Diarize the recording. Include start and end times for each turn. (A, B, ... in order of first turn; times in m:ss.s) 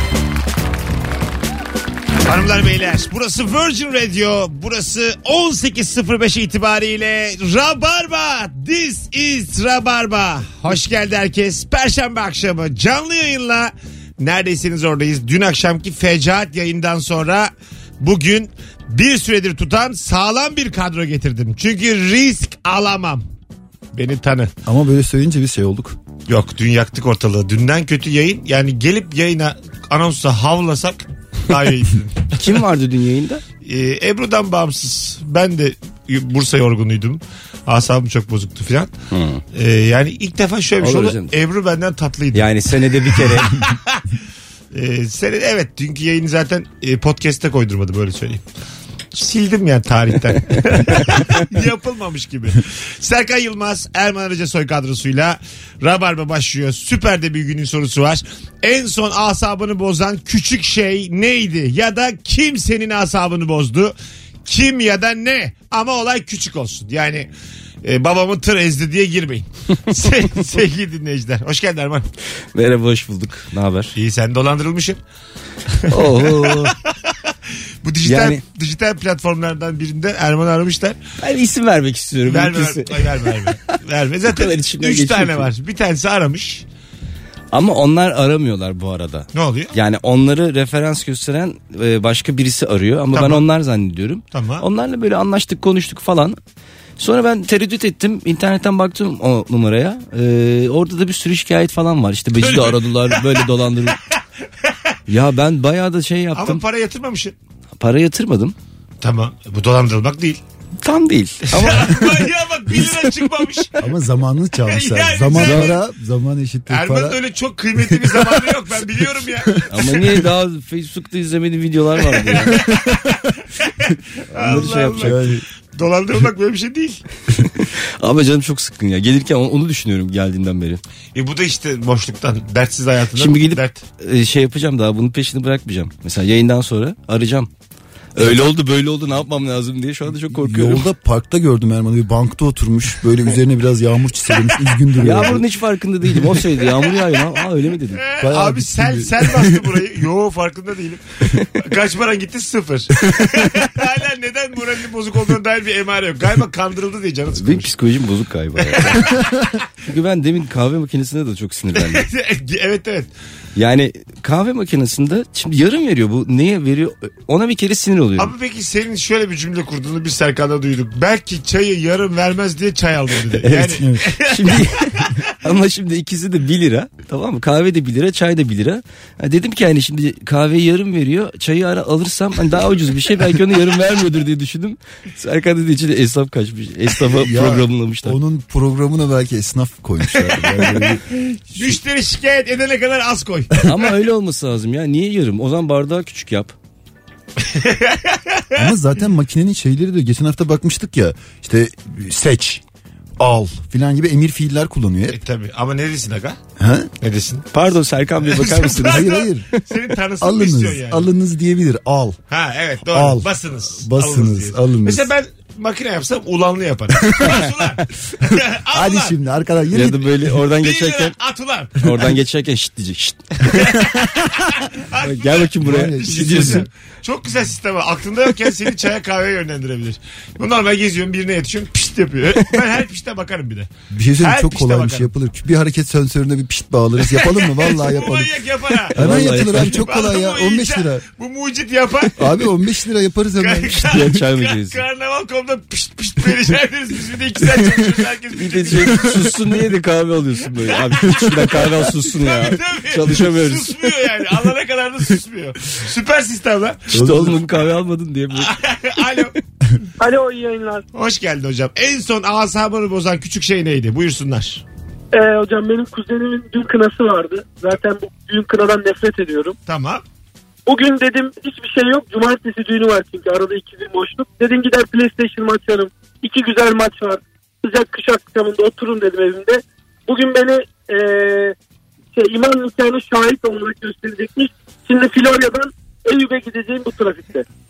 0:02.3-0:23.2 A
0:23.9-0:24.5 A
0:24.7-0:26.0 B
0:26.3-0:32.4 A
0:32.4-0:33.4 C
0:33.6-0:39.0 A
0:39.1-0:39.4 C
0:39.5-0:42.5 A
0:40.8-0:41.3 C
0:42.3-0:43.6 C
0:43.2-0:44.0 A
0:44.7-0:48.4 A
0:49.1-1:03.9 A
1:04.5-1:07.3 A
1:07.8-1:12.1 A
1:12.5-1:14.0 C
1:14.0-1:15.0 A
1:15.9-1:16.7 C
1:15.9-1:16.7 A
1:17.8-1:21.0 A
1:18.0-1:18.4 C
1:21.2-1:23.6 C
1:22.3-1:26.6 A
1:24.3-1:25.5 C
1:27.5-1:36.4 C
1:29.3-1:29.7 A
1:33.1-1:33.4 A
1:34.3-1:34.6 A
1:37.0-1:44.0 C
1:42.4-1:43.4 A
1:45.1-1:46.6 C
1:46.4-1:47.4 A
1:47.8-1:48.6 C
1:49.0-1:50.4 A
1:50.8-1:52.2 C
1:51.5-1:53.7 A
1:53.8-1:57.2 B
1:54.7-1:55.8 A
1:55.3-1:55.7 C
1:56.7-1:59.9 A
1:58.0-1:58.4 B
1:59.7-2:02.5 C
2:02.1-2:03.0 A
2:03.6-2:05.2 A
2:04.3-2:05.2 C
2:05.0-2:05.4 B
2:05.7-2:07.0 A
2:07.6-2:10.8 C
2:11.2-2:13.8 A
2:13.2-2:17.5 C
2:18.2-2:20.8 C
2:20.2-2:25.4 B
2:25.0-2:28.0 C
2:28.0-2:37.7 A
2:28.2-2:29.5 B
2:37.4-2:39.2 C
2:39.9-2:42.0 C
2:41.8-2:43.1 A
2:43.6-2:48.3 C
2:48.2-2:54.6 A
2:53.4-3:08.2 C
3:07.1-3:11.0 B
3:10.1-3:13.6 A
3:13.6-3:16.5 C
3:17.5-3:18.6 A
3:18.6-3:22.6 B
3:23.2-3:25.2 B
3:25.1-3:26.4 A
3:26.6-3:26.9 B
3:27.0-3:27.5 A
3:27.5-3:29.1 C
3:28.2-3:31.1 A
3:28.8-3:29.5 B
3:30.2-3:32.2 B
3:32.3-3:39.2 A
3:32.9-3:33.3 B
3:33.8-3:35.1 B
3:37.2-3:37.5 C
3:38.7-3:40.3 B
3:39.7-3:41.2 C
3:40.6-3:41.8 A
3:41.8-3:43.7 C
3:43.5-3:55.1 A
3:45.0-3:46.7 C
3:45.6-3:46.7 B
3:53.9-3:58.3 B
3:57.1-3:59.0 A
3:58.9-4:01.0 B
3:59.0-3:59.9 C
3:59.6-4:02.1 A
4:02.2-4:03.9 B
4:03.4-4:09.4 A
4:03.8-4:04.8 C
4:08.4-4:13.9 C
4:10.8-4:17.0 A
4:16.9-4:18.6 C
4:16.9-4:17.4 B
4:18.3-4:19.3 A
4:20.0-4:20.8 D
4:20.9-4:24.6 A
4:25.1-4:29.6 D
4:29.7-4:30.0 A
4:30.7-4:41.5 D
4:42.1-4:47.4 D